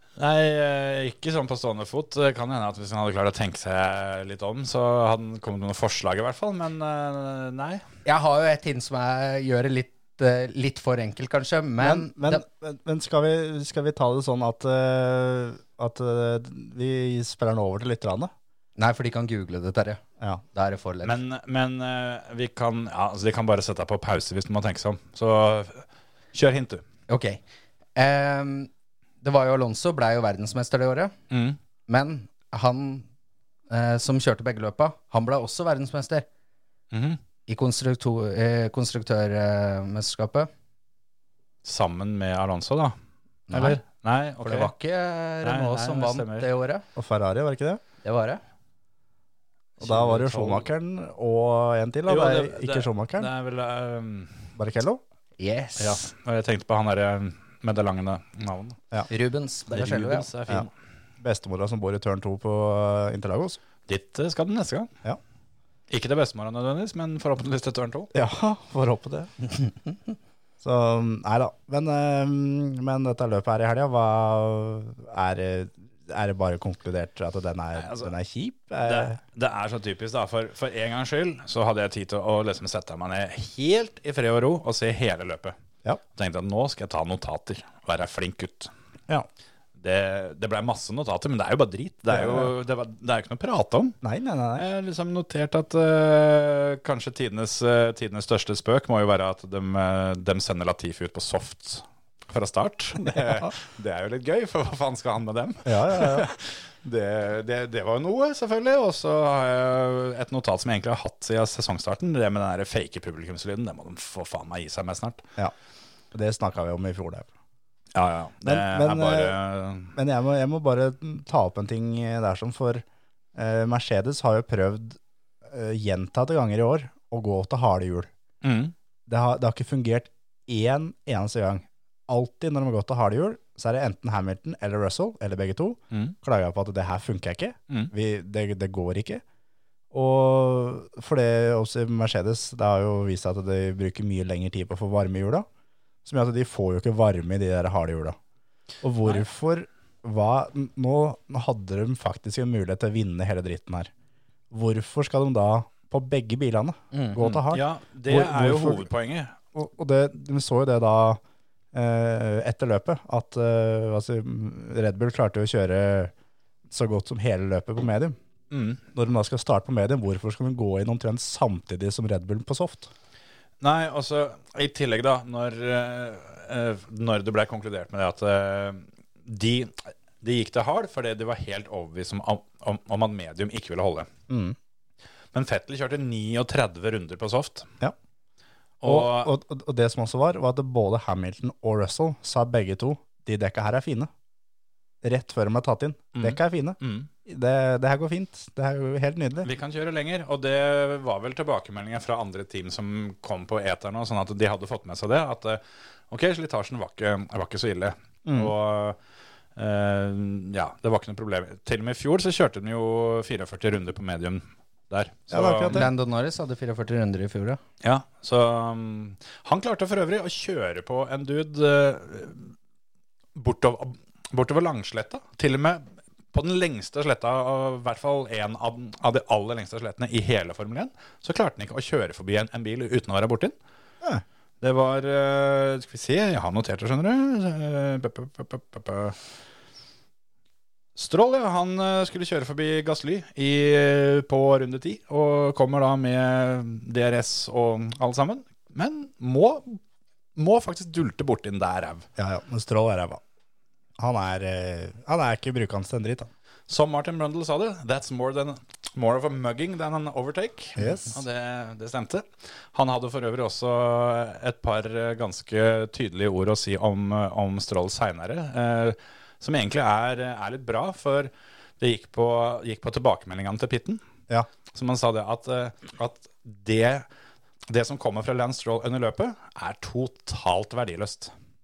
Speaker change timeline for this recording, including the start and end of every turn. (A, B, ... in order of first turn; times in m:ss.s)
0:00.2-0:07.8 A
0:08.0-0:12.4 B
0:11.8-0:18.3 C
0:18.8-0:20.0 B
0:20.5-0:21.2 B
0:21.0-0:26.8 A
0:27.1-0:27.4 B
0:28.0-0:28.7 B
0:29.2-0:31.1 B
0:31.3-0:31.6 A
0:31.9-0:33.0 B
0:33.7-0:36.2 B
0:36.9-0:37.2 A
0:37.5-0:40.5 B
0:41.6-0:42.9 A
0:43.5-0:43.8 B
0:43.5-0:44.7 A
0:44.4-0:46.8 B
0:45.4-0:46.5 A
0:47.0-0:47.8 C
0:48.0-0:48.4 B
0:49.8-0:50.7 A
0:49.8-0:53.3 C
0:52.1-0:54.5 A
0:54.6-0:55.0 C
0:55.4-0:56.0 B
0:55.8-0:58.8 A
0:59.1-1:00.3 B
0:59.7-1:00.7 A
1:01.2-1:03.6 C
1:03.9-1:04.9 A
1:05.9-1:08.1 A
1:08.1-1:09.3 C
1:10.6-1:19.2 C
1:17.8-1:18.1 A
1:18.8-1:25.5 A
1:26.2-1:28.7 A
1:29.8-1:33.9 A
1:32.1-1:32.5 C
1:34.0-1:34.6 C
1:34.6-1:55.2 A
1:43.1-1:43.5 C
1:45.6-1:46.3 C
1:56.1-1:57.3 C
1:57.9-1:59.9 A
1:58.4-1:59.4 C
1:59.9-2:02.8 C
2:03.3-2:08.1 C
2:08.4-2:08.7 A
2:09.1-2:19.2 C
2:19.9-2:25.4 C
2:26.0-2:28.2 C
2:28.8-2:33.9 C
2:34.5-2:38.9 C
2:36.9-2:37.2 B
2:37.2-2:39.3 A
2:39.5-2:41.2 C
2:41.7-2:46.1 C
2:46.7-2:48.2 C
2:48.5-2:48.8 A
2:48.9-2:52.9 C
2:53.6-3:04.1 A
3:04.3-3:04.6 C
3:05.3-3:07.7 A
3:08.8-3:09.3 A
3:08.8-3:14.1 C
3:15.0-3:19.5 C
3:16.1-3:17.1 A
3:19.4-3:29.0 A
3:28.2-3:28.5 C
3:29.6-3:35.9 A
3:35.3-3:35.9 C
3:35.7-3:37.6 B
3:37.8-3:42.5 A
3:43.3-3:53.5 A
3:54.6-3:59.2 A
4:01.0-4:09.8 A
4:10.4-4:12.1 A
4:12.2-4:13.2 C
4:14.0-4:16.3 C
4:16.7-4:34.0 A
4:20.8-4:21.2 C
4:34.7-4:37.0 A
4:37.7-4:41.3 A